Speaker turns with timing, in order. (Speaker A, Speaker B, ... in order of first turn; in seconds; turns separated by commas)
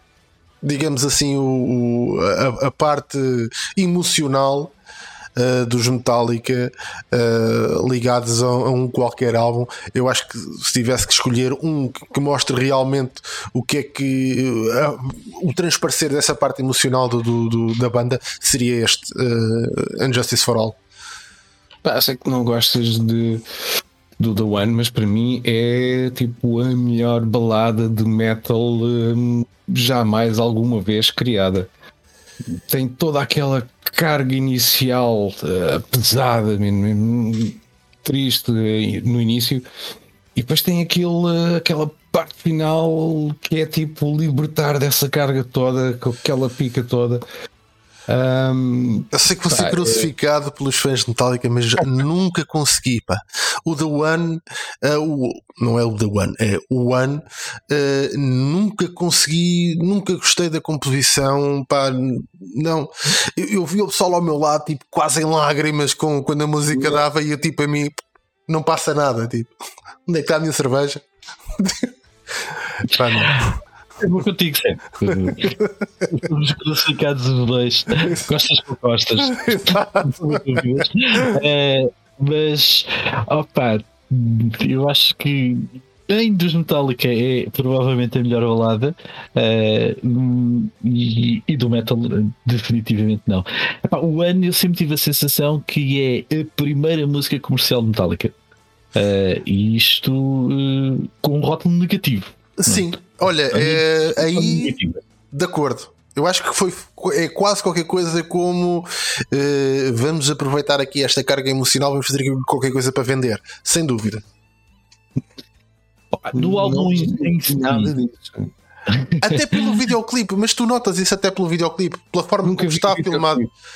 Speaker A: 0.6-4.7, Speaker A: 5.4-20.8, Speaker B: 21.8-23.4, Speaker B: 24.2-31.7, Speaker B: 32.7-39.6, Speaker B: 40.4-47.2, Speaker B: 48.1-50.1, Speaker A: 49.1-68.0, Speaker A: 68.5-69.5, Speaker A: 70.1-71.0, Speaker A: 71.6-71.9, Speaker A: 72.8-73.5, Speaker C: 74.0-98.4, Speaker A: 79.3-80.4, Speaker C: 99.0-105.0, Speaker A: 102.6-104.8, Speaker A: 105.3-114.2, Speaker C: 116.1-118.0, Speaker B: 116.3-118.5, Speaker C: 118.9-119.8, Speaker A: 119.2-123.5, Speaker B: 122.4-123.5